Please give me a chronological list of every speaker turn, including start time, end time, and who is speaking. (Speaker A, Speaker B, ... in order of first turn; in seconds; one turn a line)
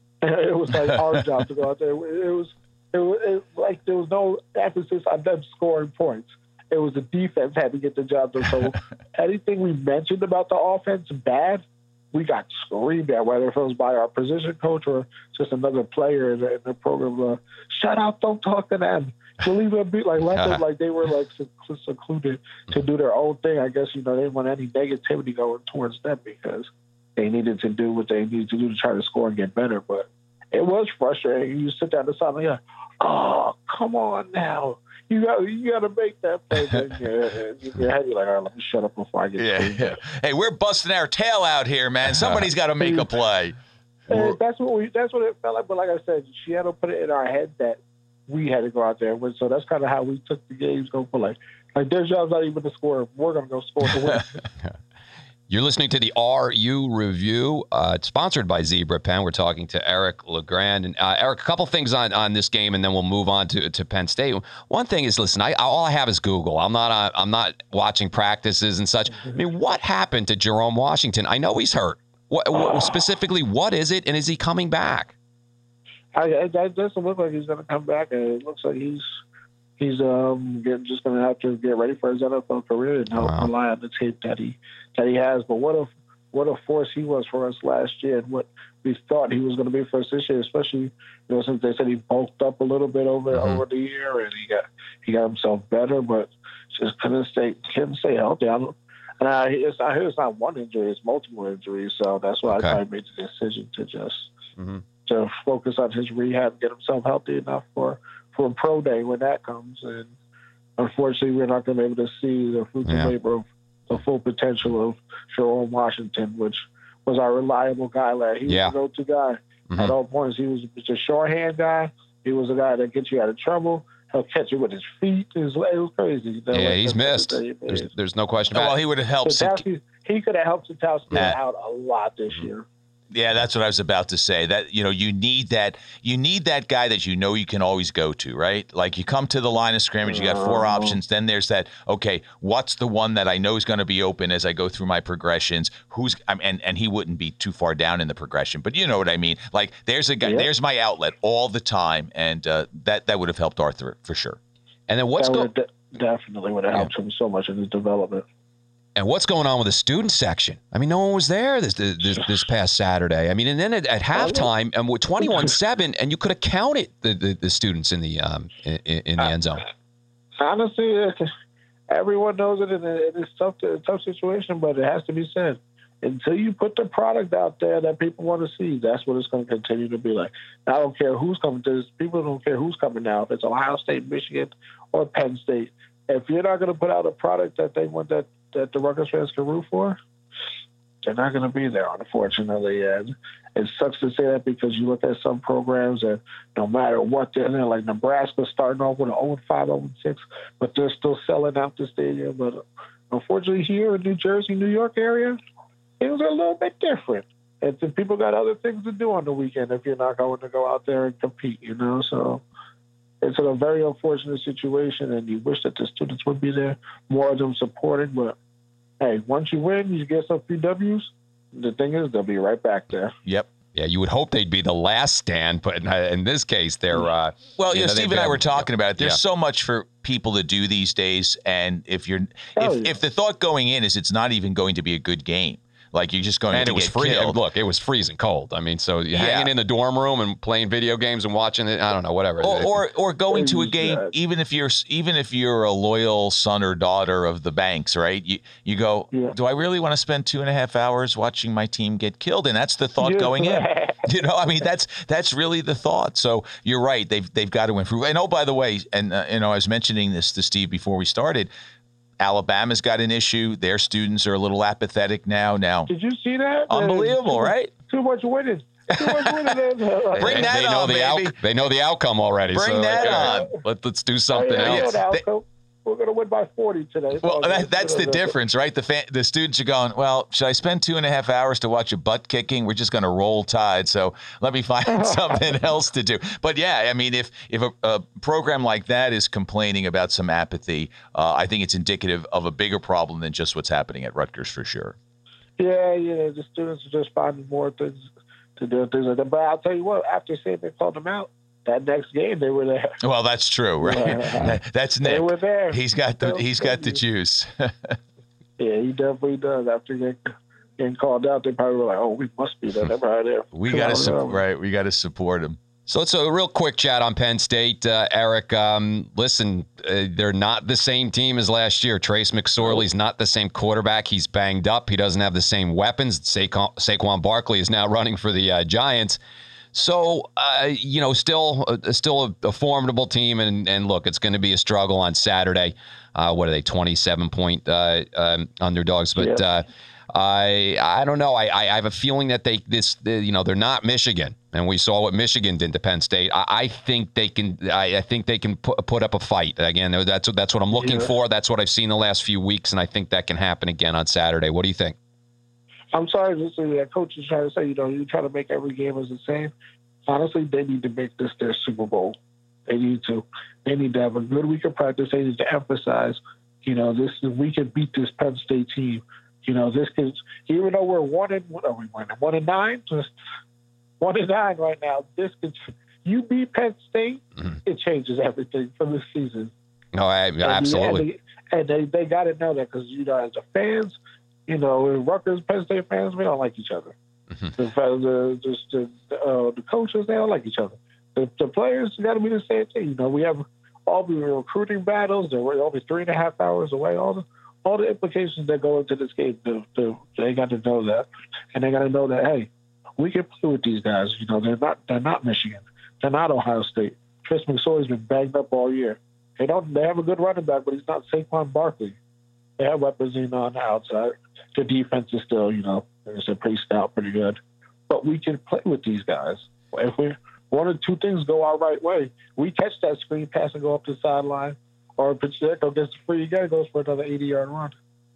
Speaker A: 0.2-40.0
Speaker B: 20.3-20.6
Speaker C: 39.4-43.5
Speaker B: 42.0-42.5
Speaker A: 42.8-43.1
Speaker C: 44.1-44.4
Speaker A: 44.1-54.3
Speaker B: 55.5-75.1
Speaker A: 76.1-79.0
Speaker A: 79.8-104.3
Speaker B: 83.1-83.5
Speaker B: 93.3-93.6
Speaker B: 102.5-102.8
Speaker B: 104.6-104.8
Speaker A: 105.0-110.1
Speaker A: 110.8-127.9
Speaker B: 112.9-113.1
Speaker B: 118.5-118.7
Speaker B: 126.5-128.8
Speaker C: 128.5-129.6
Speaker A: 129.2-132.7
Speaker C: 133.1-154.4
Speaker A: 140.1-141.0
Speaker A: 150.2-150.5
Speaker B: 154.9-155.5
Speaker A: 155.2-158.2
Speaker B: 158.9-169.7
Speaker A: 164.1-164.5
Speaker A: 170.4-171.3
Speaker A: 171.9-190.0
Speaker A: 191.0-205.4
Speaker A: 206.0-212.4
Speaker A: 213.2-218.4
Speaker A: 219.0-223.1
Speaker B: 223.7-229.2
Speaker C: 227.6-237.4
Speaker A: 232.6-233.0
Speaker B: 236.5-242.8
Speaker C: 239.1-239.5
Speaker C: 242.4-261.5
Speaker A: 243.3-244.1
Speaker A: 253.0-254.1
Speaker C: 262.2-265.9
Speaker A: 265.9-270.5
Speaker C: 266.7-267.7
Speaker C: 268.9-269.6
Speaker B: 270.1-275.0
Speaker C: 270.2-271.4
Speaker C: 272.5-273.5
Speaker A: 273.0-273.5
Speaker A: 274.3-278.4
Speaker C: 274.6-275.2
Speaker C: 277.2-294.9
Speaker A: 285.0-285.3
Speaker A: 295.6-302.9
Speaker C: 303.0-308.0
Speaker A: 303.8-307.0
Speaker A: 308.6-314.4
Speaker C: 313.5-315.6
Speaker B: 315.9-329.2
Speaker B: 329.7-354.9
Speaker A: 339.2-339.4
Speaker A: 350.7-351.1
Speaker A: 355.9-359.5
Speaker A: 360.1-373.1
Speaker A: 374.0-379.5
Speaker B: 379.9-381.0
Speaker A: 380.4-386.9
Speaker A: 387.6-412.0
Speaker A: 412.6-427.7